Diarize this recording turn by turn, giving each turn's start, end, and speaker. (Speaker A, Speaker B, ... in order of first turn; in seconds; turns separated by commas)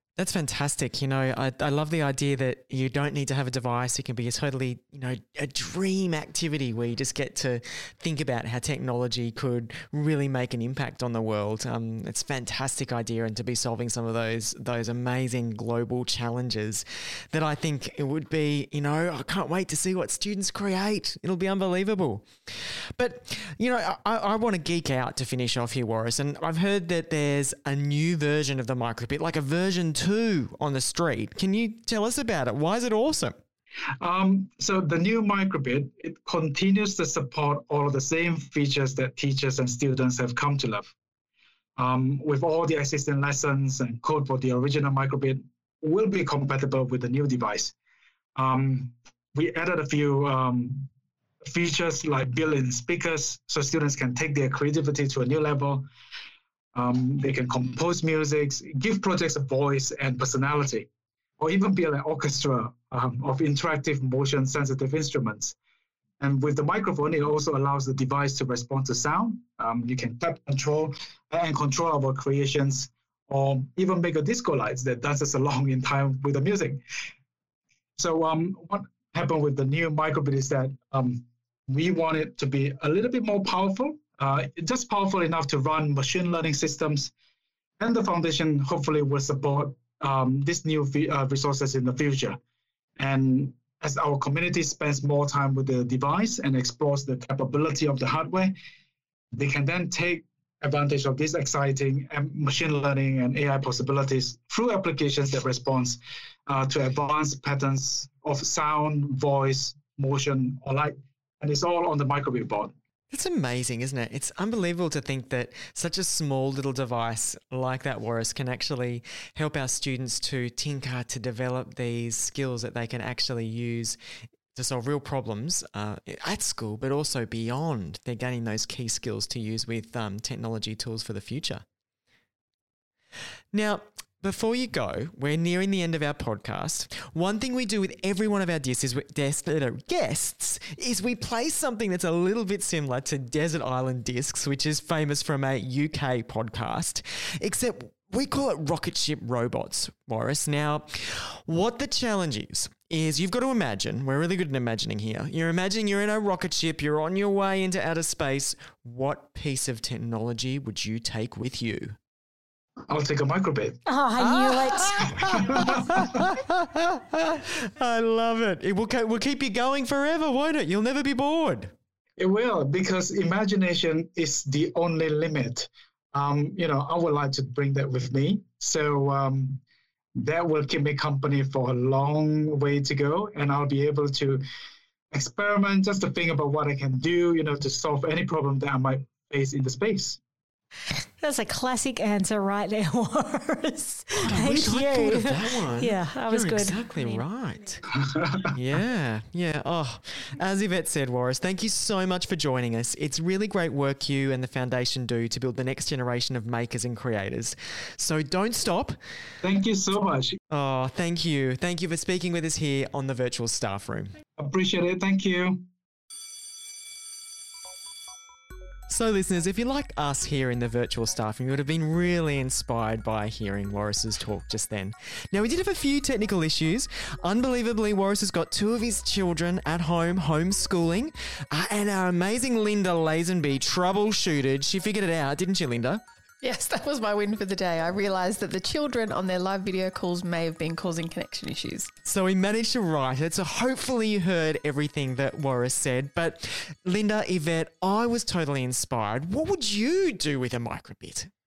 Speaker A: 0.2-33.4, Speaker B: 34.0-40.9, Speaker B: 41.8-47.7, Speaker B: 48.4-50.9, Speaker B: 51.4-55.8, Speaker B: 56.7-60.9, Speaker B: 61.4-65.5, Speaker B: 66.2-76.8, Speaker B: 78.0-87.1, Speaker B: 87.8-92.4, Speaker B: 93.0-98.5, Speaker B: 99.3-112.7, Speaker A: 113.1-124.0, Speaker A: 124.5-131.6, Speaker A: 133.5-162.0, Speaker B: 162.9-163.8, Speaker C: 163.8-165.8, Speaker A: 164.2-171.7, Speaker B: 165.5-165.8, Speaker B: 172.2-179.6, Speaker B: 180.2-184.4, Speaker B: 185.1-190.2, Speaker C: 191.2-197.2, Speaker A: 194.2-197.8, Speaker B: 198.1-198.4, Speaker A: 198.5-209.0, Speaker B: 209.4-210.4, Speaker A: 210.5-214.2, Speaker B: 214.4-215.6, Speaker A: 218.9-236.0, Speaker D: 236.4-241.9, Speaker A: 242.0-251.3